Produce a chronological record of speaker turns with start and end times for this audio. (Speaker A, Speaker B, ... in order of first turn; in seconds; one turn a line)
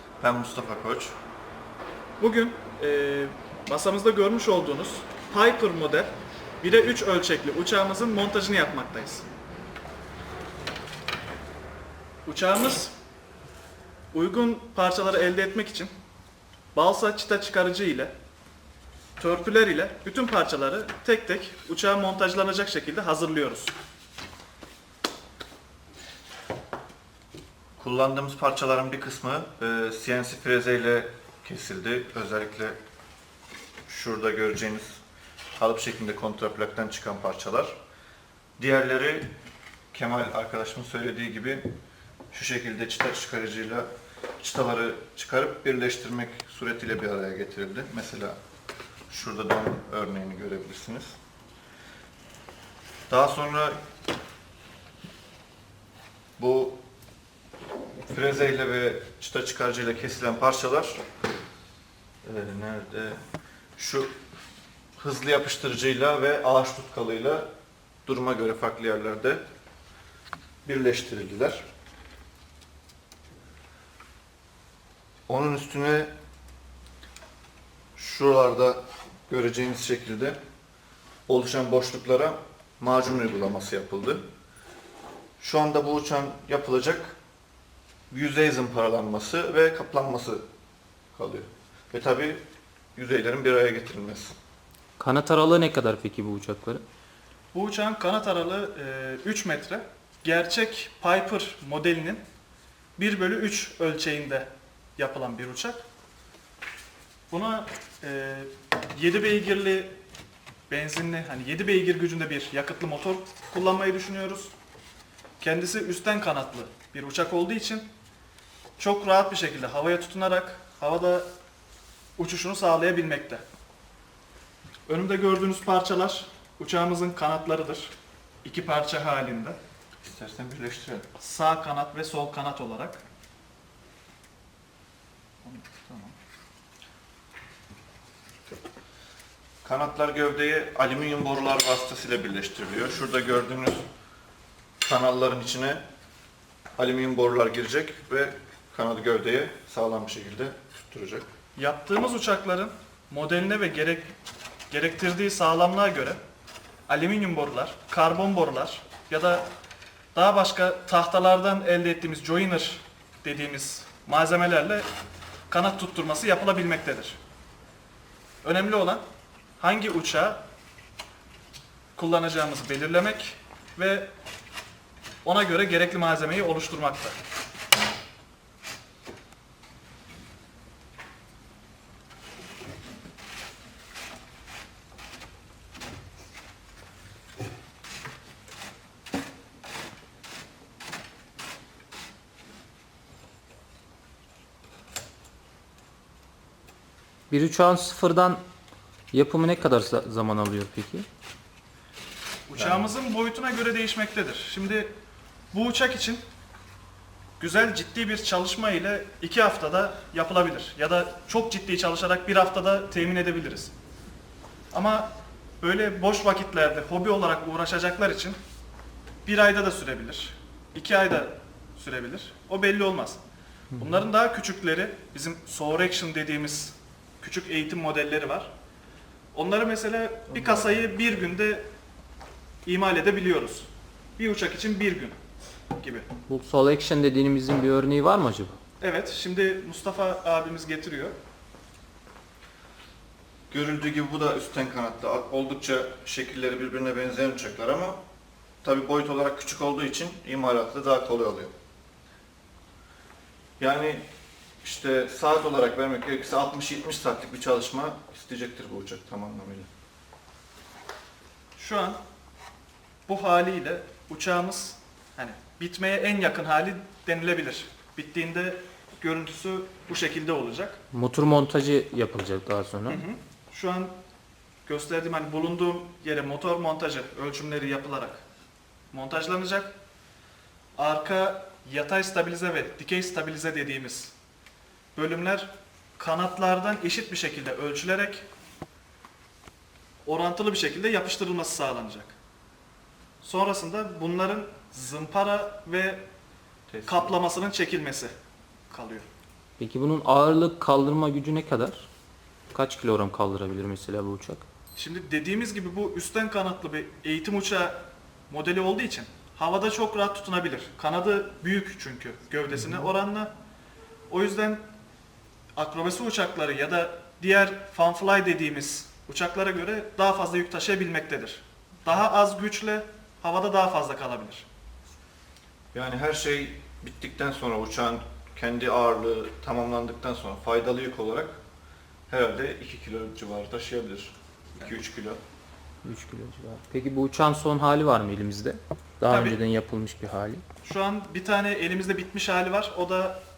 Speaker A: 0.2-1.1
Speaker B: 2.2-9.3
Speaker B: 12.2-12.9
Speaker B: 14.1-15.9
Speaker B: 16.7-18.1
Speaker B: 19.2-23.7
Speaker A: 27.8-32.8
Speaker A: 33.9-35.0
Speaker A: 35.6-37.7
Speaker A: 38.6-39.3
Speaker A: 39.9-41.7
Speaker A: 42.3-43.9
Speaker A: 44.4-48.4
Speaker A: 49.1-51.1
Speaker A: 53.1-53.8
Speaker A: 56.4-56.8
Speaker A: 58.1-61.0
Speaker A: 62.2-63.2
Speaker A: 63.8-64.1
Speaker A: 65.0-67.5
Speaker A: 68.0-69.4
Speaker A: 70.6-71.6
Speaker A: 75.3-76.1
Speaker A: 78.0-80.4
Speaker A: 81.3-84.2
Speaker A: 85.4-87.2
Speaker A: 88.1-90.4
Speaker A: 91.1-92.4
Speaker A: 92.9-94.3
Speaker C: 95.0-96.8
Speaker B: 97.5-102.2
Speaker B: 103.0-105.8
Speaker B: 107.3-110.0
Speaker B: 110.7-114.5
Speaker B: 115.4-117.9
Speaker B: 118.8-121.3
Speaker B: 122.2-123.4
Speaker B: 124.9-127.9
Speaker B: 128.4-129.6
Speaker A: 130.0-131.1
Speaker B: 131.2-133.0
Speaker A: 135.4-136.2
Speaker A: 139.6-143.8
Speaker A: 144.8-145.8
Speaker A: 146.8-151.3
Speaker B: 151.6-154.1
Speaker B: 154.7-156.2
Speaker B: 156.9-159.4
Speaker B: 160.1-164.8
Speaker B: 165.5-167.2
Speaker B: 168.4-169.0
Speaker B: 169.6-170.4
Speaker B: 171.9-174.1
Speaker B: 175.2-177.2
Speaker C: 197.3-198.4
Speaker C: 199.1-201.1
Speaker B: 202.5-204.9
Speaker A: 202.6-202.8
Speaker B: 205.5-206.2
Speaker B: 207.4-213.7
Speaker B: 214.7-218.4
Speaker B: 219.2-223.2
Speaker B: 223.8-228.5
Speaker B: 229.3-231.7
Speaker B: 232.6-235.2
Speaker B: 235.8-236.1
Speaker C: 236.3-238.6
Speaker B: 238.8-241.2
Speaker A: 243.5-248.0
Speaker A: 248.6-251.5
Speaker A: 253.6-254.0
Speaker A: 254.6-259.7
Speaker B: 261.6-262.0
Speaker B: 263.1-270.8
Speaker C: 270.9-273.0
Speaker B: 272.9-273.9
Speaker B: 274.6-278.2
Speaker B: 278.9-279.7
Speaker B: 280.8-284.1
Speaker B: 284.9-288.2
Speaker B: 290.0-292.1
Speaker B: 293.2-296.0
Speaker A: 296.7-297.1
Speaker B: 296.9-298.1
Speaker B: 298.7-299.1
Speaker C: 299.6-301.9
Speaker C: 302.5-304.4
Speaker B: 304.8-313.3
Speaker B: 314.1-314.6
Speaker B: 315.6-324.4
Speaker A: 325.7-331.4
Speaker A: 332.1-335.2
Speaker C: 335.8-340.4
Speaker B: 339.1-339.4
Speaker B: 340.6-343.2